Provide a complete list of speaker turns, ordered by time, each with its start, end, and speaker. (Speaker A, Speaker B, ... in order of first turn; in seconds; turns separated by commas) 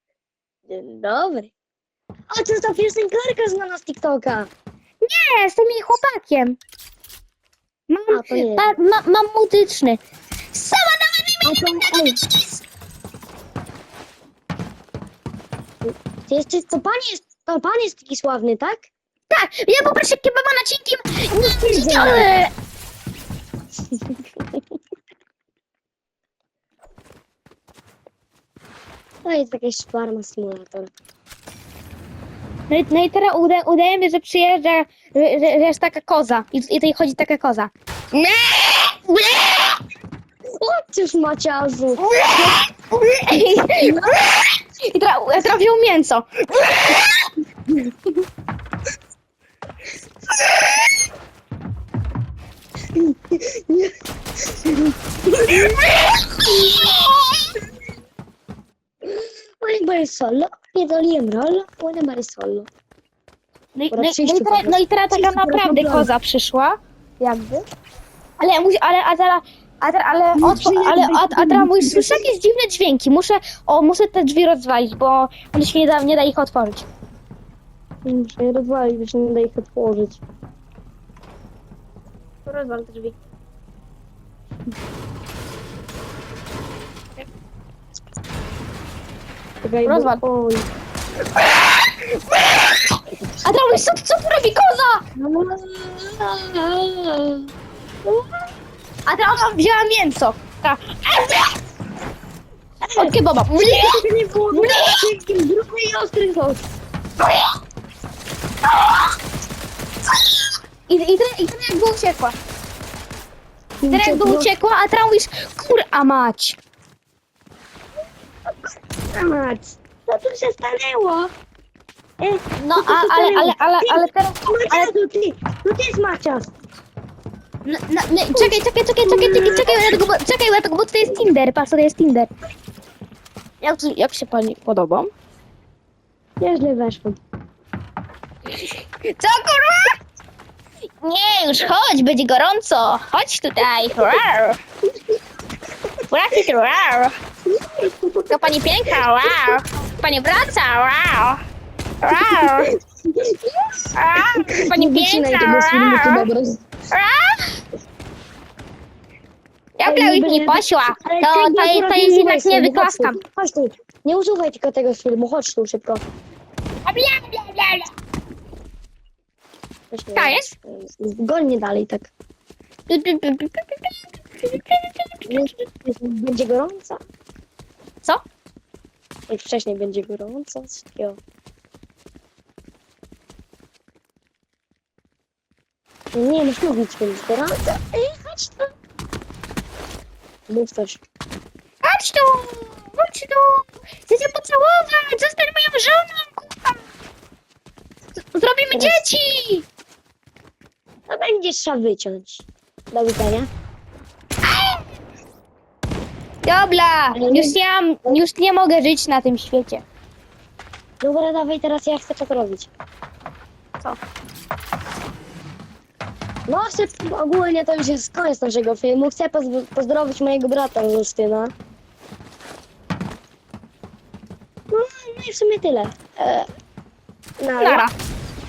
Speaker A: 0.7-1.5, Speaker A: 2.3-4.5, Speaker B: 5.0-6.6, Speaker B: 7.9-10.0, Speaker A: 8.1-8.7, Speaker B: 10.5-12.6, Speaker A: 11.4-12.2, Speaker A: 15.8-18.9, Speaker B: 19.3-22.5, Speaker A: 21.5-22.3, Speaker A: 29.2-30.9, Speaker B: 32.7-39.8, Speaker A: 40.6-42.0, Speaker B: 42.0-47.2, Speaker A: 43.8-44.2, Speaker A: 53.0-53.9, Speaker A: 54.6-55.8, Speaker B: 56.5-57.3, Speaker A: 59.0-62.7, Speaker B: 63.7-67.6, Speaker A: 63.9-66.1, Speaker B: 68.4-76.9, Speaker A: 70.4-72.2, Speaker A: 78.0-80.2, Speaker B: 82.5-83.2, Speaker A: 89.6-90.7, Speaker B: 89.8-90.2, Speaker B: 93.4-95.0, Speaker A: 95.2-97.5, Speaker B: 99.0-101.5, Speaker A: 102.8-106.6, Speaker B: 103.0-104.0, Speaker B: 104.5-105.0, Speaker B: 110.9-112.4, Speaker A: 113.8-114.5, Speaker B: 113.9-116.6, Speaker A: 119.1-121.3, Speaker A: 122.2-126.5, Speaker B: 122.6-124.9, Speaker B: 127.7-132.3, Speaker A: 128.3-130.0, Speaker B: 133.6-135.1, Speaker A: 136.4-137.2, Speaker B: 139.1-139.9, Speaker B: 141.0-144.6, Speaker B: 146.1-147.1, Speaker A: 147.8-148.5, Speaker B: 148.3-151.4, Speaker A: 149.3-149.5, Speaker B: 152.0-152.7, Speaker A: 152.1-153.5, Speaker B: 153.9-156.3, Speaker A: 154.2-156.6, Speaker B: 156.9-157.4, Speaker B: 159.8-163.2, Speaker A: 159.8-166.0, Speaker B: 166.8-167.9, Speaker A: 169.9-172.1, Speaker B: 170.2-170.5, Speaker B: 172.9-175.3, Speaker A: 175.3-177.0, Speaker A: 179.3-181.2, Speaker A: 186.1-188.7, Speaker A: 190.5-191.0, Speaker B: 191.8-196.8, Speaker B: 198.3-199.7, Speaker A: 198.7-199.0, Speaker A: 201.1-203.5, Speaker B: 204.4-204.8, Speaker B: 206.4-209.8, Speaker A: 207.1-208.2, Speaker A: 211.0-212.7, Speaker A: 216.5-221.5, Speaker A: 224.7-226.4, Speaker A: 227.4-227.8, Speaker B: 227.6-227.9